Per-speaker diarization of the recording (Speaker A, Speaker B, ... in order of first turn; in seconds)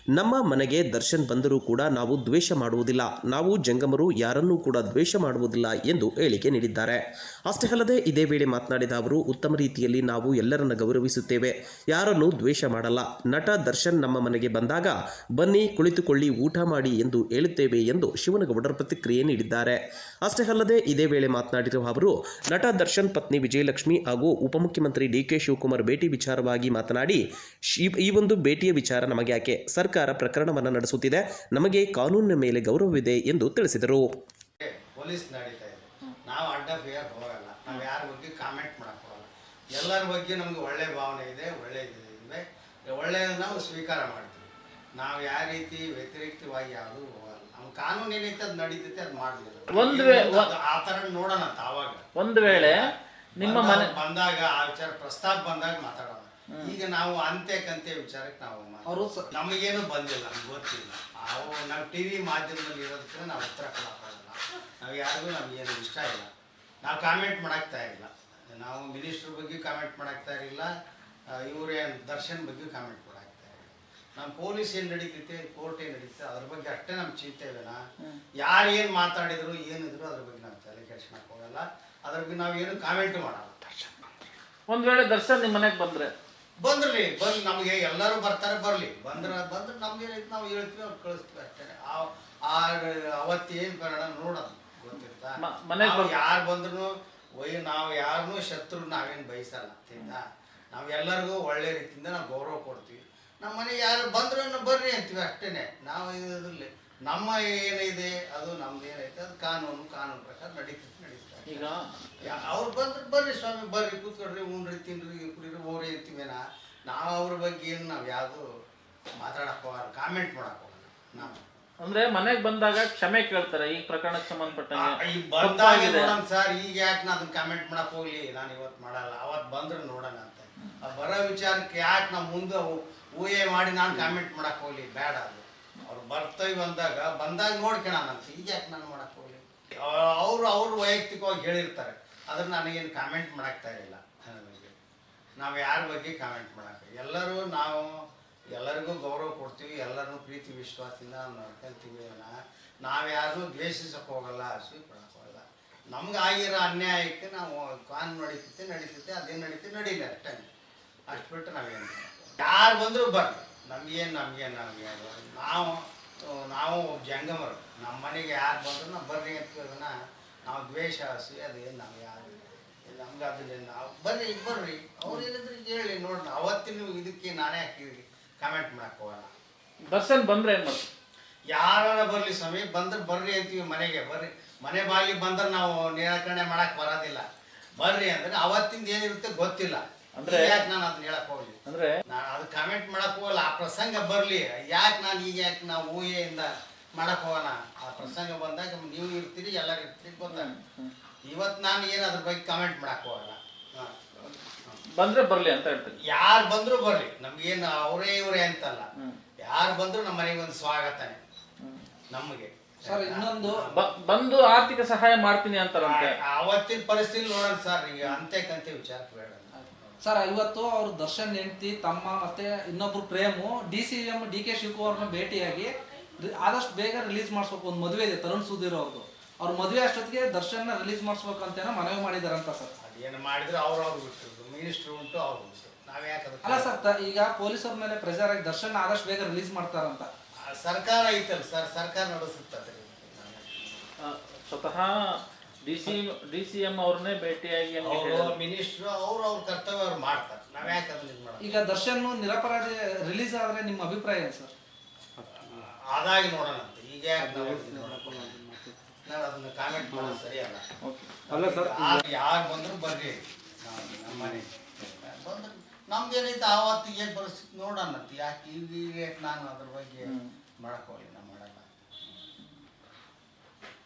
Speaker A: 0.2-27.2, 27.7-34.1
Speaker B: 34.6-66.3, 66.8-70.7, 71.3-77.8, 78.4-83.6, 86.6-118.4, 119.2-121.4, 124.7-144.7, 145.4-147.9, 148.5-160.5, 161.1-169.9, 170.5-179.3, 181.5-187.2, 187.8-200.5, 201.3-203.9, 206.1-208.9, 209.4-211.2, 212.1-213.9, 215.8-220.0, 232.8-236.8, 240.5-243.9, 247.8-251.6, 255.5-258.4, 259.1-260.7, 261.3-271.7
Speaker C: 49.7-50.5, 52.2-52.7, 53.4-53.9, 84.7-86.1, 95.4-96.1, 111.5-112.4, 121.2-126.2, 179.9-180.9, 190.2-190.7, 191.7-191.9, 200.3-200.9, 205.0-206.0, 213.7-216.1, 244.0-244.9, 245.7-248.3, 260.8-261.2, 270.1-270.3
Speaker D: 58.9-59.3, 212.8-213.6, 220.0-232.7, 236.4-240.1, 251.4-254.5, 257.5-258.8, 261.3-262.0